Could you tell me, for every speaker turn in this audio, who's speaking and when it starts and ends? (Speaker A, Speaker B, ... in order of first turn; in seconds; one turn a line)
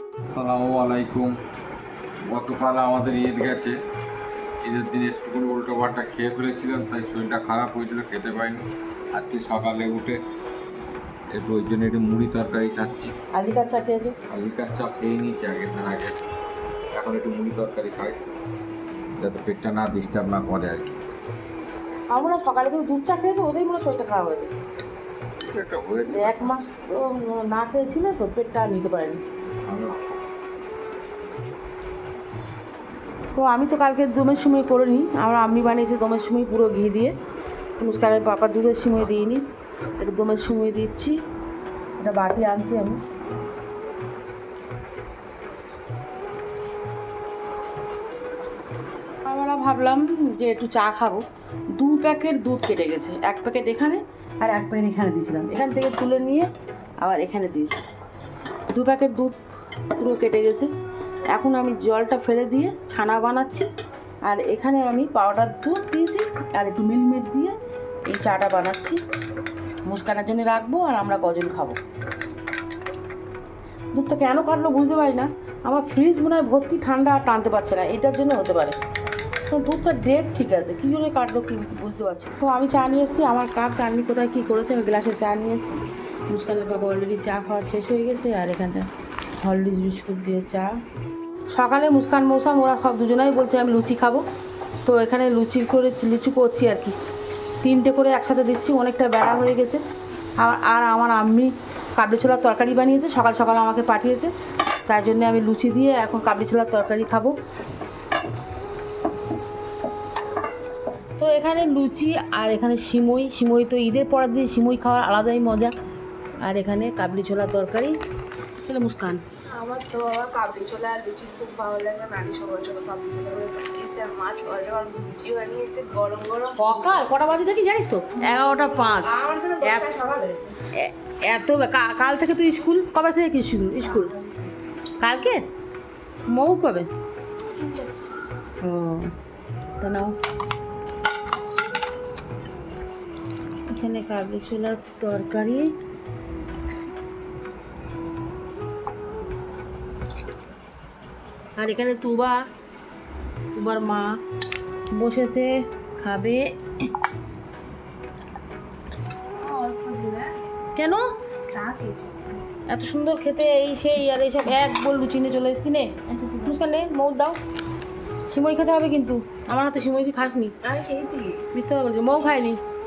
Speaker A: 0.3-1.3
Speaker A: 2.2-3.8
Speaker A: 4.6-8.6
Speaker A: 9.1-10.2
Speaker A: 11.3-13.1
Speaker B: 13.3-14.1
Speaker A: 14.3-16.1
Speaker A: 16.9-18.2
Speaker A: 19.2-21.0
Speaker B: 22.1-24.6
Speaker A: 25.4-26.5
Speaker B: 26.1-29.2
Speaker A: 29.6-30.2
Speaker B: 33.3-37.1
Speaker B: 37.8-39.4
Speaker B: 40.0-41.1
Speaker B: 42.0-43.0
Speaker B: 49.2-51.2
Speaker B: 51.7-56.5
Speaker B: 57.0-57.8
Speaker B: 58.7-59.4
Speaker B: 60.0-60.7
Speaker B: 61.3-63.7
Speaker B: 64.2-67.5
Speaker B: 68.1-69.0
Speaker B: 69.8-71.8
Speaker B: 73.9-78.8
Speaker B: 79.5-88.9
Speaker B: 89.4-90.7
Speaker B: 91.5-94.2
Speaker B: 94.8-96.9
Speaker B: 97.6-99.8
Speaker B: 100.4-104.3
Speaker B: 104.8-107.3
Speaker B: 111.2-115.7
Speaker B: 116.4-118.0
Speaker B: 118.6-119.2
Speaker C: 119.5-127.0
Speaker B: 126.5-129.9
Speaker C: 129.0-130.5
Speaker B: 130.7-134.1
Speaker C: 133.8-134.5
Speaker B: 135.0-135.4
Speaker B: 136.3-136.9
Speaker C: 137.6-137.9
Speaker B: 138.6-139.1
Speaker B: 139.8-140.1
Speaker B: 143.7-145.7
Speaker B: 151.6-152.4
Speaker B: 153.5-154.2
Speaker B: 154.9-156.5
Speaker C: 159.4-160.3
Speaker B: 160.8-161.0
Speaker C: 161.5-162.1
Speaker B: 162.7-165.9
Speaker B: 166.4-167.4
Speaker B: 168.3-170.5
Speaker C: 170.6-171.4
Speaker B: 171.5-172.6